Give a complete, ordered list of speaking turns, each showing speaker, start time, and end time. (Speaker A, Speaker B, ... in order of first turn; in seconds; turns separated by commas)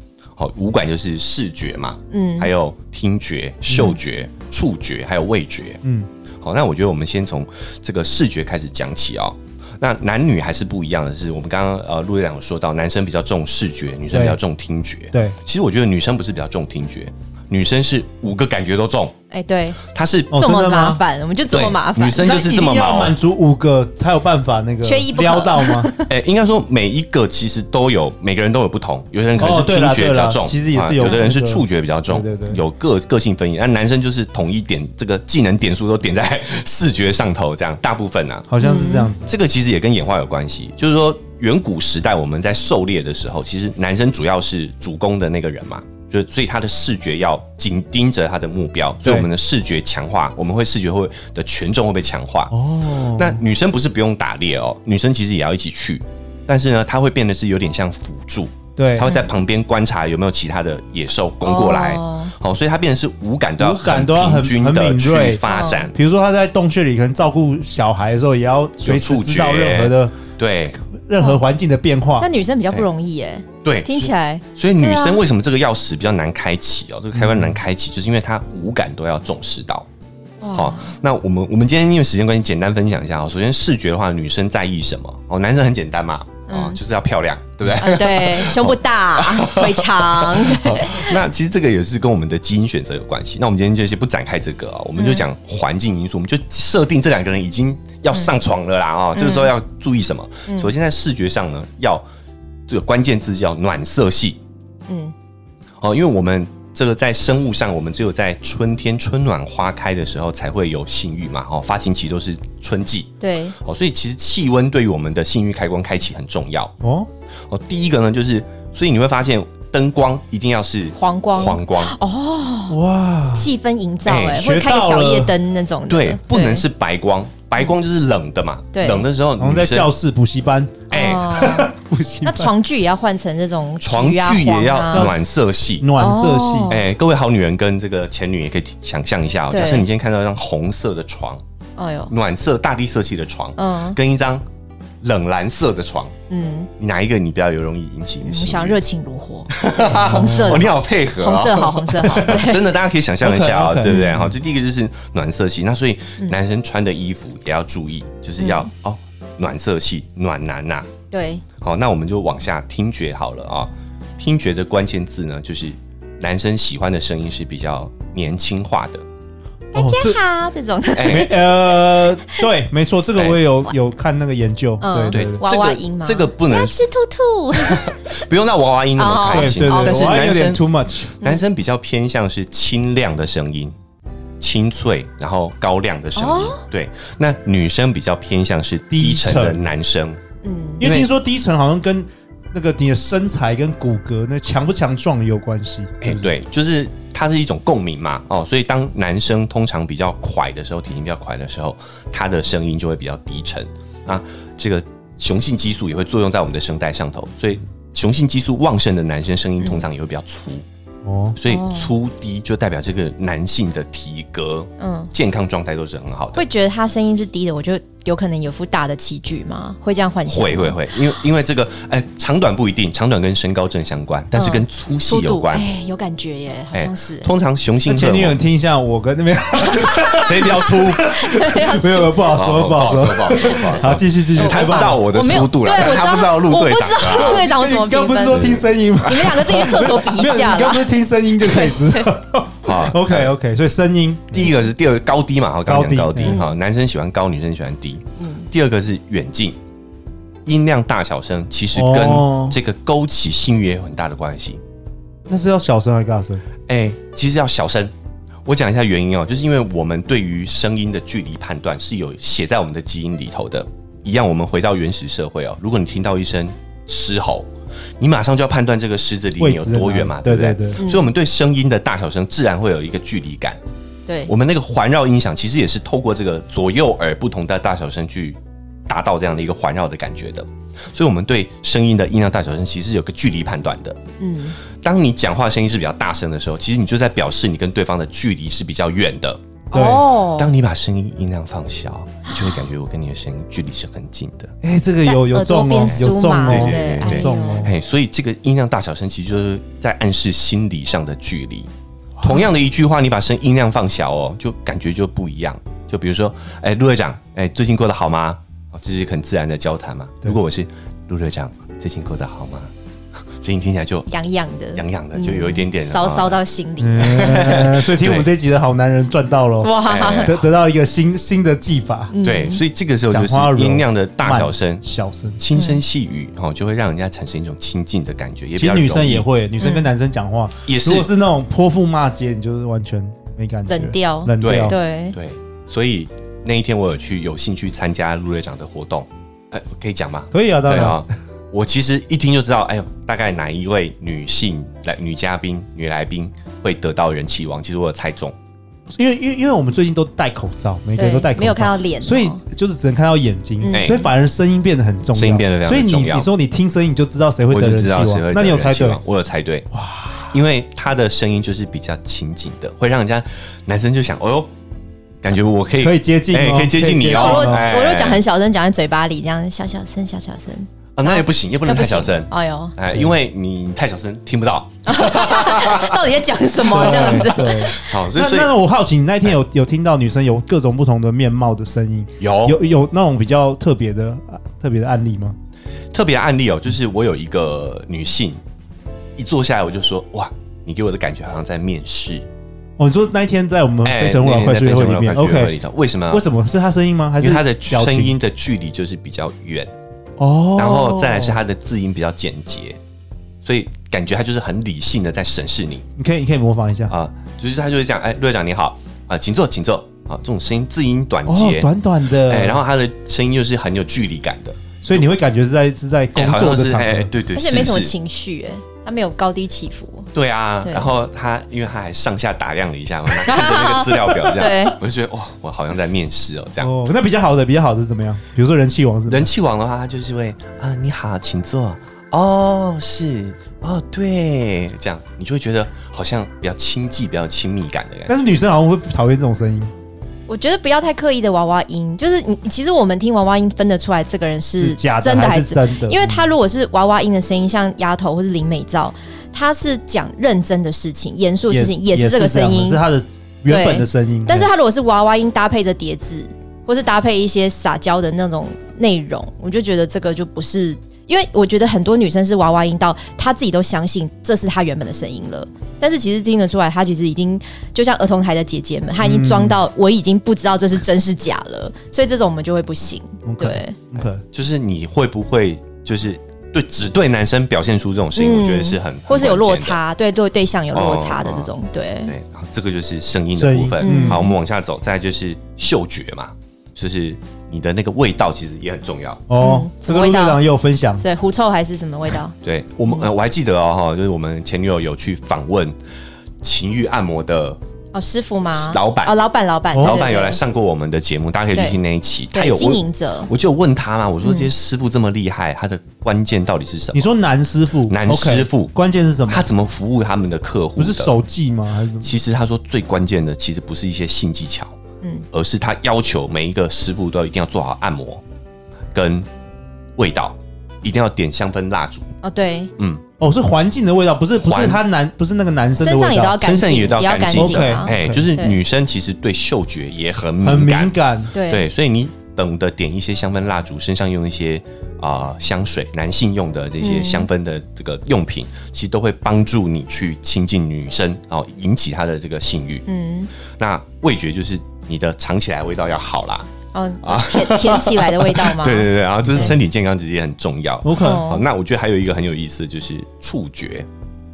Speaker A: 0.4-5.8, Speaker B: 2.1-2.5, Speaker A: 6.4-19.1, Speaker C: 14.1-14.4, Speaker B: 19.3-19.8, Speaker A: 19.9-20.4, Speaker C: 20.3-21.0, Speaker B: 20.3-22.4, Speaker A: 21.5-23.2, Speaker C: 22.2-25.9, Speaker B: 24.8-26.1, Speaker A: 26.1-38.5, Speaker C: 29.4-32.6, Speaker B: 31.0-31.3, Speaker C: 38.5-39.3, Speaker B: 38.6-39.1, Speaker A: 39.2-65.9, Speaker C: 52.5-53.4, Speaker C: 58.8-59.1, Speaker B: 59.0-59.3, Speaker B: 61.5-62.3, Speaker C: 63.6-70.2, Speaker B: 65.5-65.9, Speaker A: 68.8-70.8, Speaker C: 71.1-72.3, Speaker B: 72.2-75.2, Speaker A: 73.7-79.9, Speaker C: 77.2-77.5, Speaker B: 80.4-80.9, Speaker A: 80.5-102.0, Speaker B: 86.5-86.8, Speaker B: 87.8-91.2, Speaker B: 95.0-95.2, Speaker B: 99.2-99.5, Speaker B: 100.5-100.7, Speaker A: 102.7-104.4, Speaker B: 104.9-105.1, Speaker A: 105.8-116.7, Speaker B: 113.2-113.6, Speaker C: 116.8-117.1, Speaker A: 117.5-122.0, Speaker B: 121.0-122.8, Speaker C: 122.7-123.5, Speaker B: 123.3-126.7, Speaker A: 124.1-124.4, Speaker C: 124.3-125.3, Speaker A: 125.9-129.9, Speaker B: 128.7-129.1, Speaker C: 129.4-132.5, Speaker B: 130.9-131.7, Speaker A: 130.9-131.4, Speaker B: 132.2-135.2, Speaker A: 133.8-135.9, Speaker C: 134.9-135.2, Speaker C: 135.8-136.8, Speaker B: 136.0-136.8, Speaker A: 136.7-141.4, Speaker B: 139.5-139.9, Speaker B: 141.8-142.1, Speaker A: 142.1-144.4, Speaker B: 143.6-144.0, Speaker A: 145.0-146.2, Speaker B: 146.3-146.7, Speaker A: 146.8-148.8, Speaker B: 148.2-152.7, Speaker A: 149.5-160.9, Speaker C: 149.9-150.6, Speaker C: 153.2-154.3, Speaker B: 153.9-154.3, Speaker B: 158.4-158.7, Speaker B: 161.1-161.4, Speaker A: 161.6-169.0, Speaker B: 169.7-172.4, Speaker C: 169.8-170.2, Speaker A: 170.9-171.4, Speaker C: 171.1-175.4, Speaker B: 174.8-178.2, Speaker A: 175.1-176.8, Speaker A: 177.6-180.6, Speaker B: 179.0-180.4, Speaker C: 179.3-181.1, Speaker A: 181.2-183.8, Speaker A: 184.4-190.2, Speaker B: 186.2-186.6, Speaker C: 188.9-189.6, Speaker B: 190.4-190.9, Speaker A: 190.8-191.1, Speaker C: 190.8-196.3, Speaker A: 196.0-210.7, Speaker C: 211.1-211.4, Speaker A: 211.4-216.4, Speaker B: 211.4-211.9, Speaker B: 214.8-215.1, Speaker B: 216.3-220.8, Speaker A: 220.3-225.7, Speaker B: 224.3-227.3, Speaker A: 226.7-228.4, Speaker C: 227.9-235.0, Speaker B: 229.7-230.2, Speaker A: 230.1-231.5, Speaker B: 231.1-232.3, Speaker A: 232.3-237.5, Speaker B: 233.4-233.8, Speaker B: 234.3-242.1, Speaker C: 237.2-244.5, Speaker A: 238.3-238.7, Speaker A: 242.6-243.3, Speaker A: 244.3-249.6, Speaker C: 245.7-246.4, Speaker B: 246.2-246.6, Speaker B: 248.2-248.5, Speaker A: 250.4-254.6, Speaker C: 251.8-252.6, Speaker C: 255.3-256.4, Speaker A: 256.7-257.9, Speaker A: 258.4-273.6, Speaker C: 269.4-270.8, Speaker B: 270.8-271.1, Speaker B: 274.1-274.3, Speaker A: 274.3-284.0, Speaker B: 284.2-284.6, Speaker A: 284.7-289.4, Speaker B: 289.7-290.5, Speaker C: 289.7-290.0, Speaker A: 290.4-294.5, Speaker C: 294.6-297.7, Speaker B: 295.0-297.7, Speaker A: 295.9-301.7, Speaker A: 302.2-312.7, Speaker A: 313.4-314.1, Speaker B: 314.1-317.7, Speaker A: 314.8-316.4, Speaker C: 316.8-322.1, Speaker A: 317.0-318.3, Speaker B: 319.6-320.3, Speaker A: 319.9-320.4, Speaker B: 322.1-322.6, Speaker A: 322.2-324.8, Speaker C: 323.1-325.4, Speaker A: 325.4-329.3, Speaker B: 325.5-325.8, Speaker C: 328.6-334.8, Speaker B: 329.6-329.9, Speaker A: 330.7-331.1, Speaker B: 333.7-335.2, Speaker A: 334.4-348.4, Speaker C: 340.3-341.0, Speaker C: 348.9-359.0, Speaker B: 351.0-352.4, Speaker B: 353.6-354.1, Speaker A: 353.7-354.1, Speaker A: 355.1-356.3, Speaker A: 357.5-359.7, Speaker C: 359.7-360.3, Speaker A: 360.3-364.5, Speaker A: 365.2-368.2, Speaker C: 365.8-367.6, Speaker B: 367.1-372.8, Speaker A: 371.0-376.1, Speaker B: 374.9-377.9, Speaker C: 376.6-385.4, Speaker A: 376.7-378.5, Speaker A: 382.2-382.6, Speaker A: 385.9-388.4, Speaker A: 389.2-392.3, Speaker C: 392.8-395.6, Speaker A: 393.8-396.3, Speaker C: 396.1-398.1, Speaker A: 397.2-399.7, Speaker C: 400.2-401.4, Speaker A: 400.6-402.8, Speaker A: 403.4-405.9, Speaker C: 406.0-406.9, Speaker A: 406.9-411.7, Speaker C: 411.3-412.6, Speaker A: 412.3-415.0, Speaker C: 414.8-417.1, Speaker A: 416.1-417.9, Speaker B: 417.4-420.1, Speaker A: 420.1-426.7, Speaker B: 420.6-420.9, Speaker B: 423.2-424.8, Speaker C: 426.6-429.3, Speaker A: 429.1-438.2, Speaker C: 438.1-439.7, Speaker B: 440.3-452.8, Speaker C: 444.6-446.3, Speaker C: 451.5-454.5, Speaker B: 453.5-473.8, Speaker C: 469.0-469.6, Speaker C: 473.3-474.2, Speaker A: 474.0-479.8, Speaker B: 478.2-482.1, Speaker A: 480.7-481.5, Speaker A: 482.1-489.2, Speaker C: 483.4-484.2, Speaker B: 483.8-484.4, Speaker C: 489.3-491.0, Speaker B: 489.4-490.4, Speaker B: 491.0-492.3, Speaker A: 492.4-495.8, Speaker A: 496.4-497.6, Speaker B: 497.9-500.4, Speaker A: 498.5-499.1, Speaker C: 499.7-500.0, Speaker A: 499.8-507.1, Speaker B: 502.3-503.3, Speaker B: 504.2-504.5, Speaker C: 506.9-509.5, Speaker A: 507.9-508.7, Speaker A: 509.3-511.1, Speaker C: 510.8-512.1, Speaker A: 512.0-514.8, Speaker A: 515.3-518.2, Speaker A: 518.9-519.3, Speaker A: 520.0-522.1, Speaker B: 522.2-522.7, Speaker C: 523.2-526.4, Speaker A: 524.4-524.8, Speaker B: 525.8-528.6, Speaker A: 526.4-542.9, Speaker C: 527.4-528.2, Speaker C: 530.4-531.3, Speaker B: 531.3-531.7, Speaker B: 536.8-537.3, Speaker B: 542.9-543.3, Speaker A: 543.5-546.5, Speaker B: 546.7-548.9, Speaker A: 547.0-553.9, Speaker C: 550.8-551.2, Speaker B: 551.0-551.5